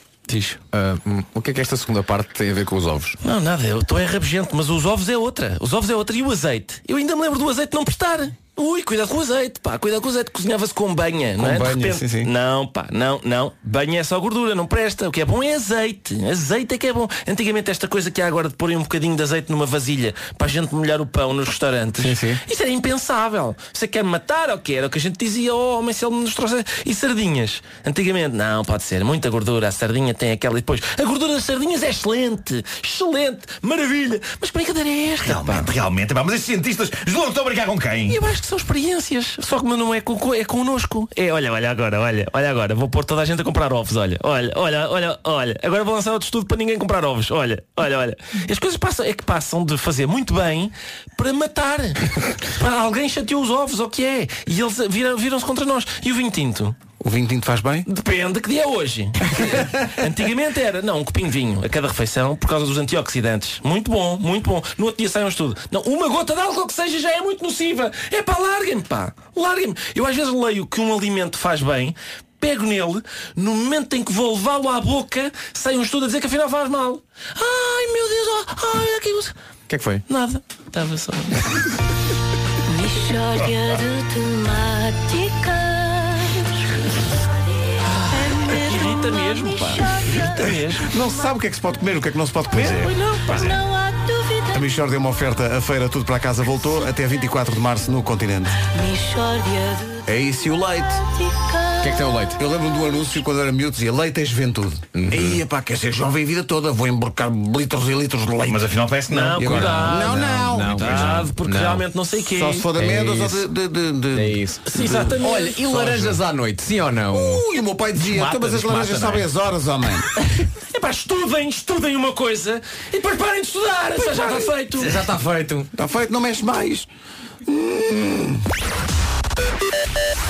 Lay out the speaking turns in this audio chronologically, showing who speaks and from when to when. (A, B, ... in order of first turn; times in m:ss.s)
0:00.3-0:00.6 A
0:00.7-0:03.2 B
0:03.2-0:35.7 A
0:11.4-0:12.3 C
0:22.0-0:22.4 C
0:35.2-0:38.2 D
0:38.1-0:56.7 A
0:57.0-0:57.8 C
0:57.8-1:19.3 A
1:19.7-1:20.0 B
1:20.1-1:21.7 A
1:22.7-1:26.7 E
1:27.8-1:30.9 A
1:28.1-1:31.3 E
1:30.8-1:32.8 C
1:32.5-1:33.6 D
1:32.5-1:33.5 A
1:33.3-1:34.9 E
1:34.5-1:38.6 C
1:38.7-1:42.0 E
1:40.0-1:41.0 C
1:41.8-1:42.4 B
1:42.4-1:48.6 C
1:44.9-1:45.4 B
1:48.4-1:50.1 D
1:49.1-1:52.7 A
1:49.4-1:51.1 C
1:49.5-1:51.9 B
1:50.8-1:51.2 D
1:52.2-1:56.2 C
1:52.8-1:53.5 B
1:54.1-1:57.4 B
1:54.7-1:55.6 A
1:57.1-2:00.1 C
1:58.0-1:59.2 B
2:00.2-2:05.1 A
2:04.7-2:05.7 B
2:05.7-2:06.9 C
2:07.4-2:08.4 C